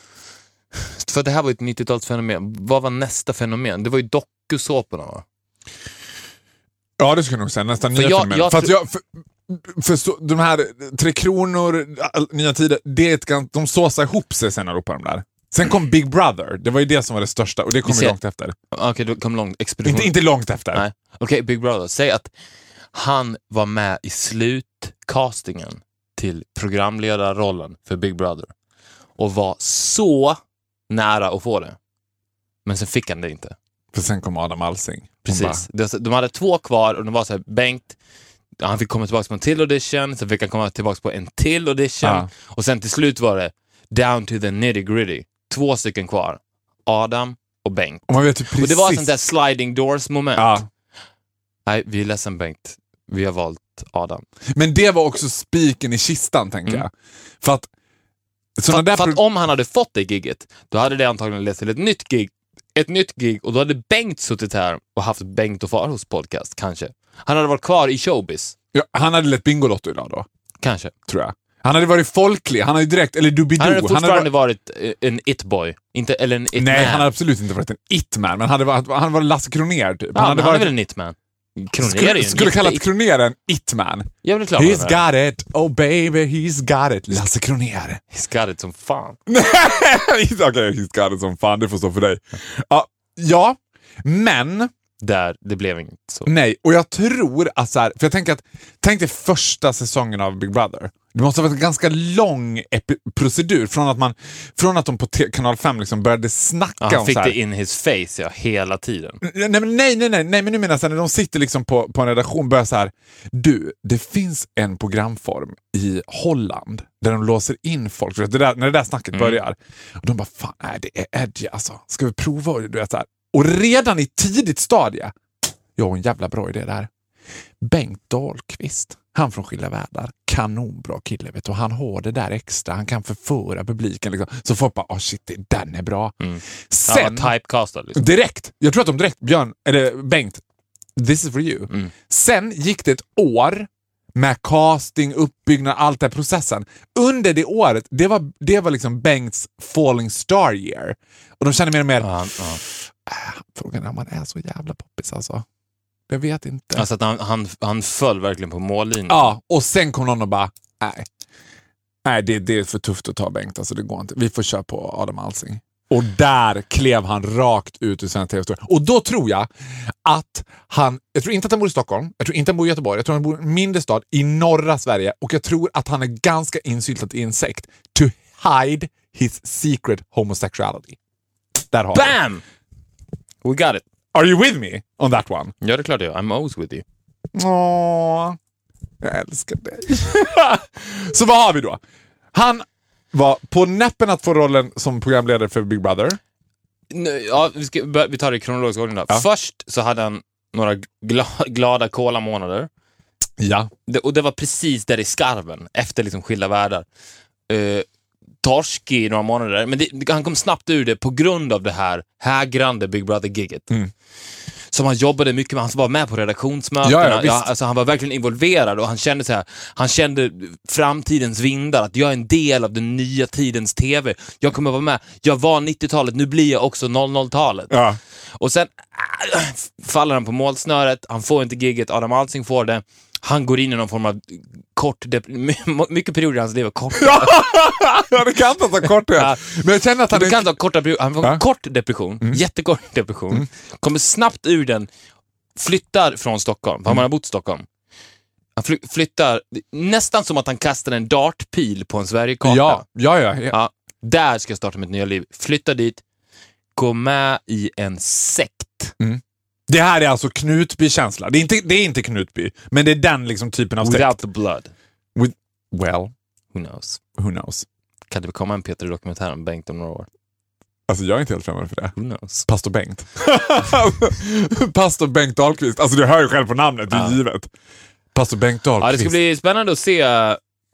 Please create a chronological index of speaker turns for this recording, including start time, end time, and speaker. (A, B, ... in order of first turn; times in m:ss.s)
0:00.8-0:05.2 A
0:07.0-0:18.5 B
0:07.9-0:08.8 A
0:17.8-0:18.2 A
0:18.7-0:22.3 A
0:19.8-0:20.8 B
0:22.9-0:28.5 A
0:29.2-0:31.8 A
0:32.6-0:33.5 A
0:33.9-0:35.6 B
0:35.2-0:38.0 A
0:38.6-0:50.6 A
0:42.0-0:42.3 B
0:48.1-0:49.1 B
0:50.4-0:50.7 B
0:51.6-0:54.2 A
0:54.5-0:56.9 B
0:57.4-0:57.7 B
0:58.6-0:59.2 B
0:58.7-1:08.5 A
1:08.7-1:10.2 B
1:10.6-1:10.9 A
1:11.1-1:14.3 B
1:13.6-1:17.1 A
1:16.5-1:20.7 B
1:20.1-1:22.8 A
1:21.8-1:28.0 B
1:24.2-1:25.0 A
1:28.1-1:29.2 A
1:29.3-1:34.7 B
1:35.0-1:36.3 A
1:36.2-1:47.4 B
1:46.8-1:49.2 A
1:49.2-2:05.1 B
1:59.1-1:59.4 A
2:05.8-2:06.9 B
2:07.6-2:16.2 B
2:16.2-2:18.0 A
2:16.7-2:17.3 B
2:17.9-2:20.4 B
2:21.0-2:32.1 B
2:32.0-2:32.6 A
2:32.6-2:35.4 B
2:36.1-2:36.9 B
2:36.7-2:39.3 A
2:39.1-2:41.1 B
2:42.0-2:49.5 B
2:50.0-3:01.0 B
3:01.7-3:02.2 B
3:01.9-3:02.4 A
3:03.4-3:03.8 A
3:04.1-3:05.5 B
3:05.6-3:06.8 A
3:07.3-3:08.4 B
3:09.0-3:11.8 B
3:12.3-3:16.2 B
3:16.9-3:22.7 A
3:23.4-3:23.7 B
3:23.9-3:26.8 A
3:27.5-3:27.8 A
3:28.4-3:33.7 A
3:34.7-3:47.7 A
3:36.8-3:37.5 B
3:47.7-3:48.0 B
3:48.4-3:57.5 A
3:57.0-4:00.5 B
3:59.1-3:59.4 A
4:00.1-4:04.9 A
4:05.6-4:07.6 A
4:08.6-4:12.8 A
4:12.4-4:13.6 B
4:13.5-4:16.0 A
4:16.8-4:18.9 A
4:19.0-4:24.2 B
4:23.8-4:24.7 A
4:25.1-4:26.1 B
4:26.5-4:27.0 A
4:27.2-4:27.6 B
4:28.1-4:30.1 A
4:30.9-4:31.9 B
4:32.0-4:32.5 A
4:32.4-4:37.5 B
4:36.9-4:37.2 A
4:38.1-4:39.1 B
4:38.8-4:40.4 A